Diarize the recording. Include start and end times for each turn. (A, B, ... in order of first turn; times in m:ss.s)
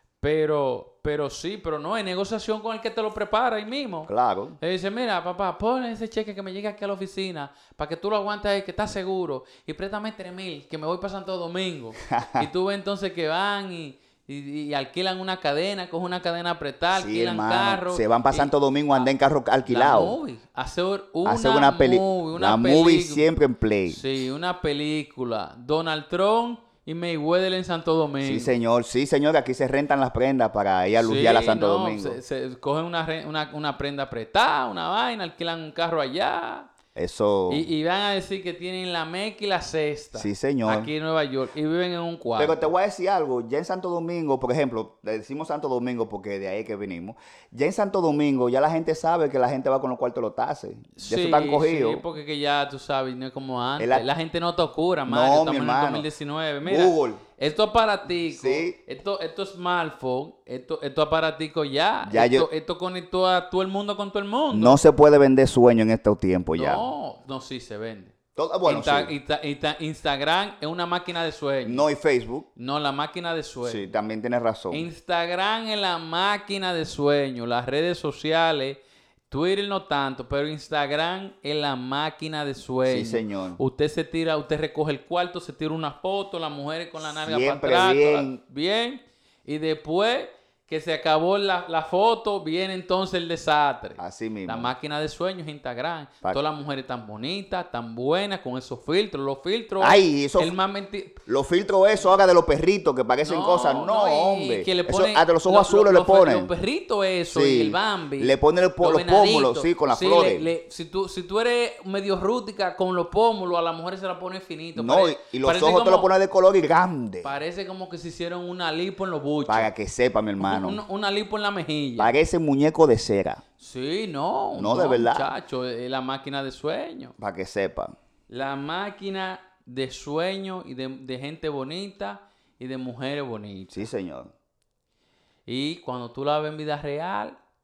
0:00.2-0:19.1 A
0:04.1-0:04.6 B
0:12.1-0:12.5 B
0:17.0-0:20.2 B
0:19.7-0:23.3 A
0:21.2-0:24.0 B
0:23.9-0:28.5 A
0:28.2-0:32.2 B
0:31.0-0:36.7 A
0:37.0-0:37.7 B
0:37.5-0:42.7 A
0:40.1-0:40.9 B
0:42.4-0:52.0 B
0:51.0-1:04.8 A
0:53.8-0:54.0 B
0:55.1-0:56.0 B
0:56.6-0:57.2 B
0:58.3-0:58.8 B
1:02.0-1:02.5 B
1:04.5-1:06.9 B
1:06.5-1:11.9 A
1:08.3-1:09.1 B
1:11.6-1:12.5 B
1:12.6-1:13.9 A
1:13.6-1:14.9 B
1:14.7-1:41.2 A
1:22.9-1:23.6 B
1:27.2-1:28.4 B
1:34.0-1:34.7 B
1:39.8-1:40.6 B
1:41.2-1:46.5 B
1:43.2-1:56.1 A
1:47.3-1:50.5 B
1:54.8-1:57.3 B
1:57.2-1:59.7 A
1:59.5-2:00.8 B
2:00.4-2:02.1 A
2:02.0-2:03.4 B
2:03.6-2:07.1 A
2:04.6-2:05.3 B
2:07.2-2:08.0 B
2:08.3-2:13.8 A
2:13.7-2:14.3 B
2:15.5-2:17.4 A